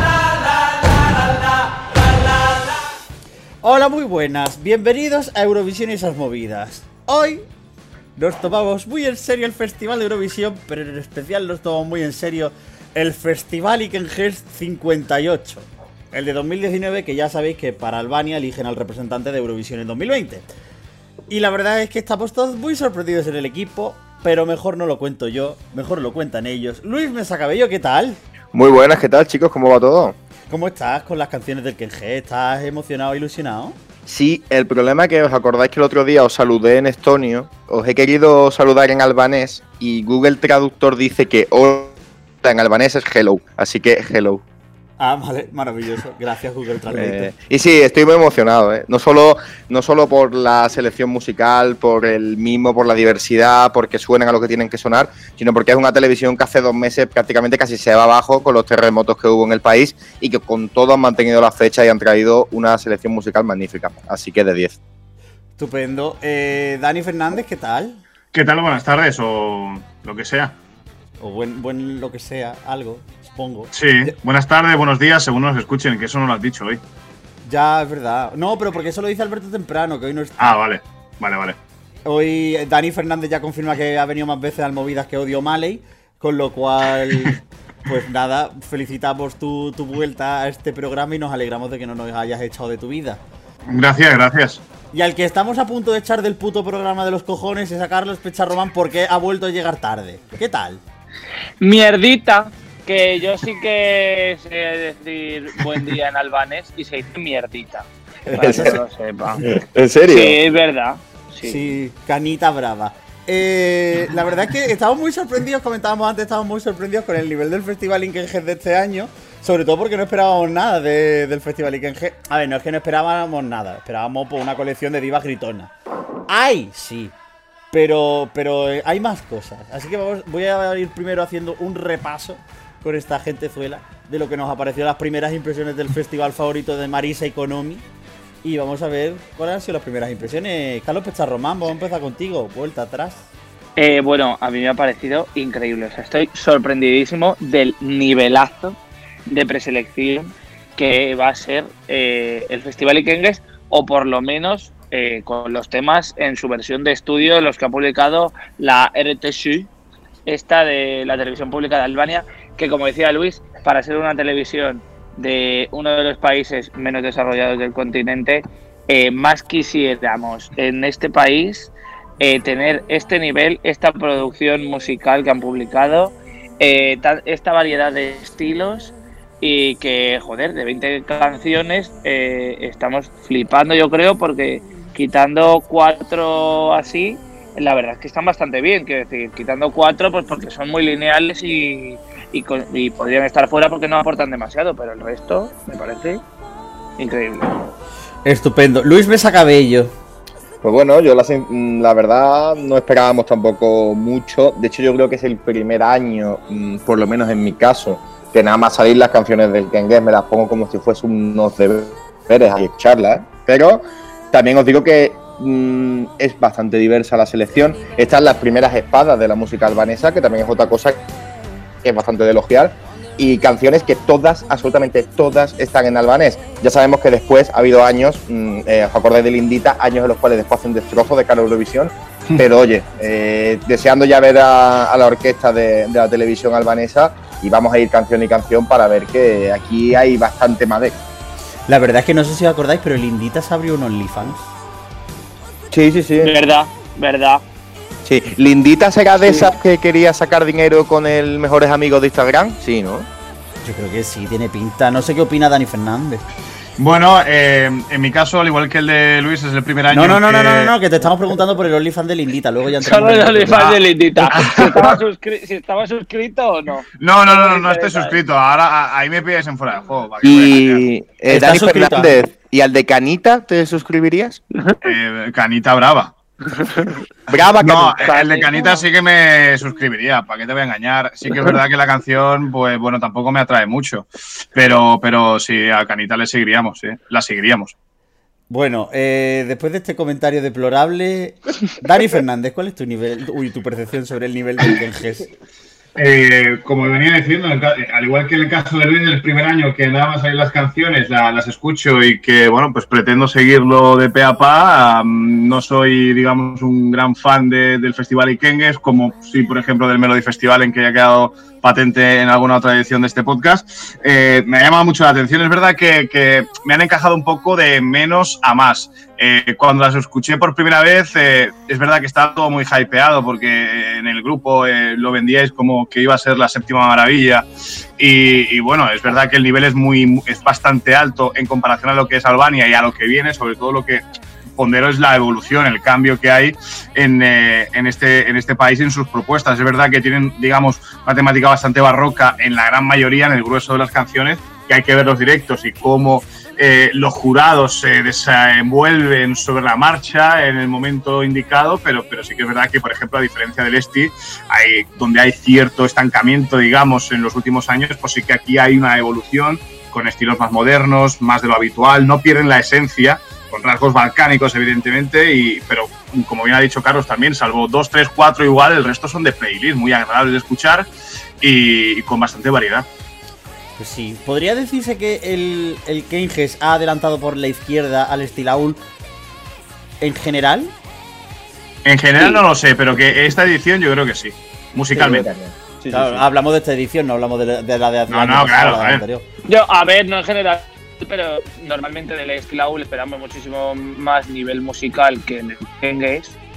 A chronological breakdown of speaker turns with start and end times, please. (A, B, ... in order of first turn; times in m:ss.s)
0:03.6-0:07.4 A
0:08.2-0:20.5 A
0:21.3-0:28.2 A
0:28.5-0:30.1 B
0:30.5-0:33.8 A
0:34.0-0:44.4 B
0:45.0-0:47.3 A
0:46.9-1:04.8 B
1:05.6-1:08.0 A
1:08.3-1:10.6 C
1:11.2-1:14.1 A
1:13.7-1:16.8 C
1:17.4-1:20.6 A
1:20.4-1:21.6 C
1:22.0-1:33.2 A
1:33.7-1:34.6 C
1:34.9-1:40.8 A
1:41.6-1:51.6 D
1:48.3-1:48.8 A
1:48.3-1:48.8 B
1:49.4-1:50.4 B
1:51.4-2:05.7 A
2:06.3-2:07.1 A
2:07.7-2:17.8 A
2:18.4-2:23.3 A
2:23.8-2:39.7 D
2:40.3-3:16.2 D
3:17.0-3:17.6 D
3:18.2-3:19.9 A
3:20.6-3:41.0 B
3:41.8-4:01.0 B
4:01.7-4:04.5 A
4:05.7-4:06.3 B
4:06.2-4:07.4 D
4:08.0-4:13.1 B
4:09.3-4:09.5 D
4:13.6-4:16.2 A
4:16.8-4:20.7 C
4:19.9-4:23.6 A
4:22.8-4:28.2 D
4:23.5-4:25.0 C
4:27.0-4:30.8 C
4:30.2-4:34.4 B
4:31.3-4:32.2 A
4:34.8-4:36.1 C
4:37.3-4:38.1 B
4:37.6-4:47.7 C
4:38.0-4:38.8 D
4:48.5-4:55.3 A
4:56.0-5:27.4 C
5:28.0-5:34.0 C
5:34.6-6:10.9 C
6:11.4-6:12.9 C
6:13.8-6:18.8 A
6:20.0-6:20.7 A
6:21.8-6:25.2 C
6:24.9-6:26.2 B
6:25.9-6:29.2 A
6:28.1-6:29.0 C
6:29.4-6:36.4 D